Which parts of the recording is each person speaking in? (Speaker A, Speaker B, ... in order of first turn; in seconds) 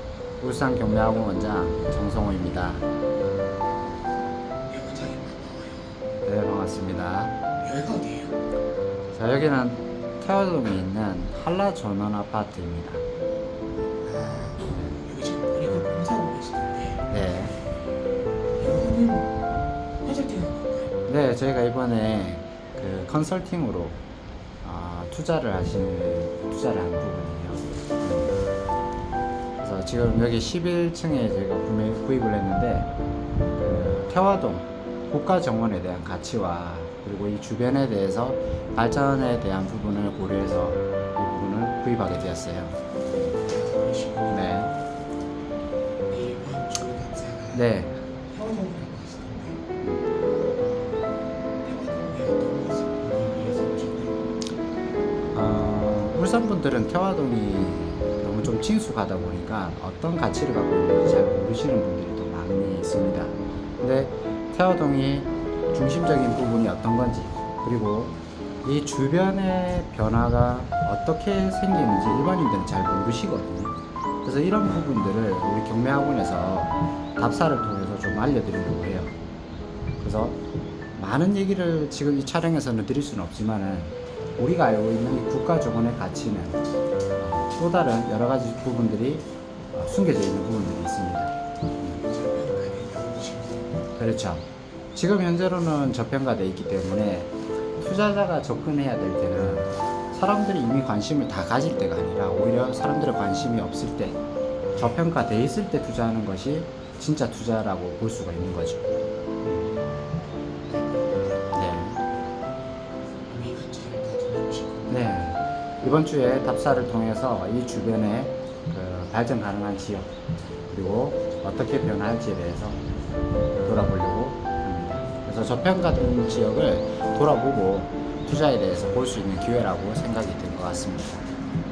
Speaker A: 0.4-2.9, 6.2-7.4, 9.1-13.0, 17.1-17.5, 21.1-24.0, 24.6-28.4, 29.6-32.9, 33.6-43.3, 44.3-44.7, 47.5-48.0, 49.8-50.1, 55.3-79.2, 80.0-80.4, 81.0-86.6, 87.2-92.0, 94.0-104.2, 104.8-108.9, 109.4-109.7, 111.5-112.0, 114.9-120.1, 120.7-122.8, 123.6-131.3
Speaker B: 4.7-6.0, 7.6-8.4, 14.0-17.2, 18.5-19.3, 20.0-20.9, 43.4-44.7, 46.1-47.7, 48.3-49.6, 51.6-54.2, 92.0-93.7, 104.7-105.0, 110.7-111.3, 113.3-115.3